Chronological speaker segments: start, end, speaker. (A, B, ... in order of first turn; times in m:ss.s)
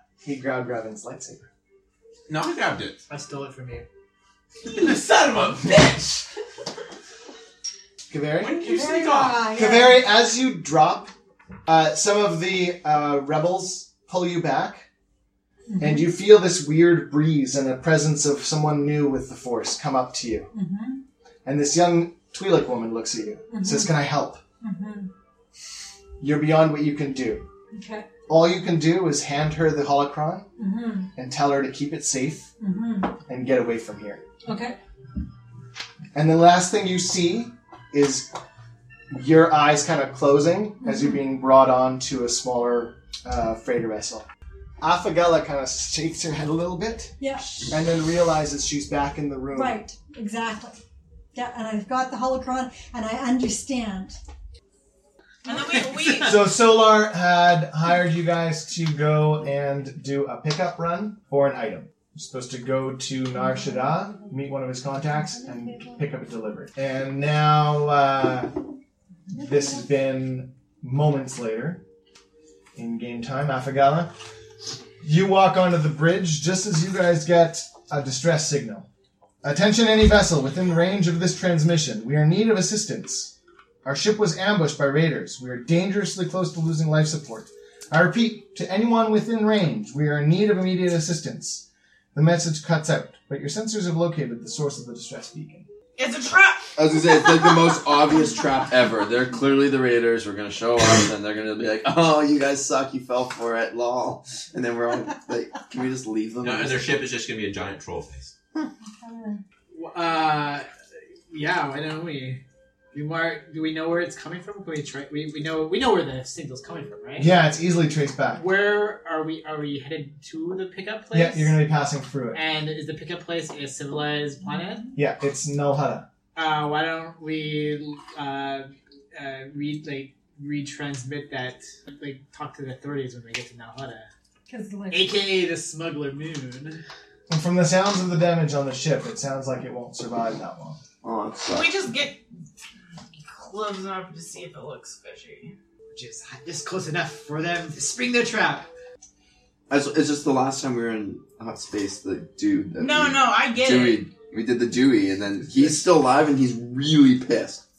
0:00.2-0:01.5 A
0:02.3-0:03.0 B
0:03.1-0:03.8 C
0:04.6-0:06.2 B
0:08.1-0:08.6 A
0:08.4-0:09.4 B
0:08.6-0:10.0 D
0:09.5-0:11.1 A
0:11.6-0:14.8 A
0:15.7-0:16.1 D
0:15.8-0:20.5 A
0:20.5-0:21.0 D
0:21.4-0:24.4 A
0:23.5-0:23.9 D
0:24.6-0:25.1 D
0:26.2-0:27.5 A
0:27.7-0:28.1 D
0:28.3-0:30.5 A
0:30.6-0:31.1 D
0:31.2-0:32.5 A
0:32.6-0:33.1 D
0:33.3-0:34.2 A
0:34.4-0:34.7 D
0:36.1-0:38.3 A
0:39.1-0:44.3 A
0:44.8-0:47.1 A
0:47.2-0:47.6 D
0:47.7-0:49.8 A
0:49.5-0:50.8 D
0:51.3-0:54.2 D
0:55.4-0:56.4 E
0:56.2-1:08.5 A
1:05.4-1:05.9 D
1:09.3-1:11.8 A
1:09.4-1:09.7 D
1:12.8-1:14.1 A
1:15.0-1:18.9 A
1:19.4-1:35.7 A
1:36.0-1:36.7 E
1:36.8-1:46.9 F
1:46.4-1:48.3 B
1:48.9-1:49.4 D
1:49.7-1:50.7 C
1:51.3-1:52.4 C
1:52.9-1:57.3 C
1:57.2-1:58.4 A
1:58.3-2:01.6 C
2:01.1-2:02.4 A
2:02.3-2:04.9 C
2:04.9-2:06.1 A
2:06.3-2:14.1 C
2:14.5-2:15.2 D
2:14.9-2:16.8 C
2:17.3-2:20.8 A
2:21.0-2:21.7 F
2:21.5-2:22.2 E
2:23.3-2:25.5 E
2:25.9-2:28.7 C
2:29.7-2:37.6 F
2:32.8-2:34.0 E